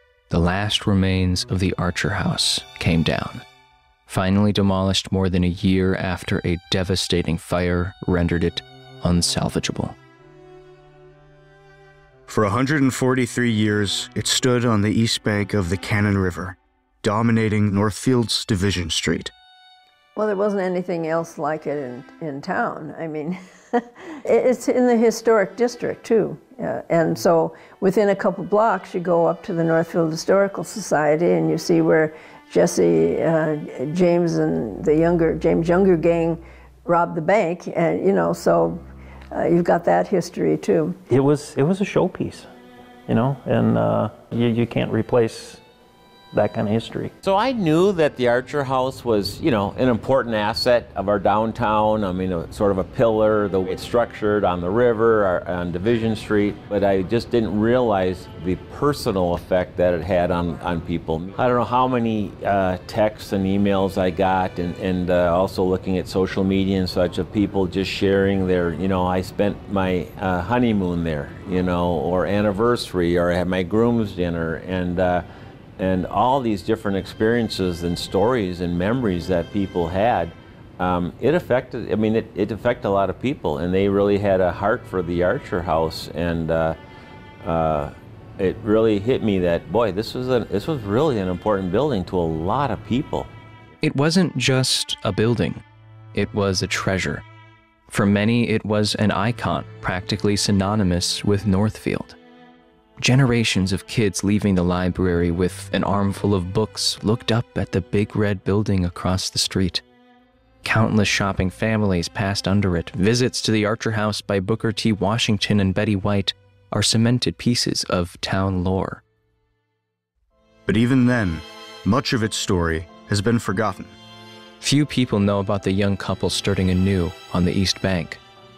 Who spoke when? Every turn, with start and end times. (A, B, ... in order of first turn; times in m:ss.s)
0:00.3-0:03.4 A
0:04.1-0:10.0 A
0:12.3-0:19.3 B
0:20.2-0:38.8 C
0:39.3-0:41.0 C
0:41.1-0:42.5 D
0:43.1-0:45.6 D
0:46.3-0:47.1 D
0:47.2-1:15.2 E
1:15.8-1:26.8 E
1:27.4-1:33.3 E
1:33.8-1:35.6 A
1:36.1-1:37.2 A
1:37.9-1:42.2 A
1:43.0-1:49.8 A
1:50.6-1:59.0 A
2:00.7-2:04.0 B
2:04.6-2:08.2 A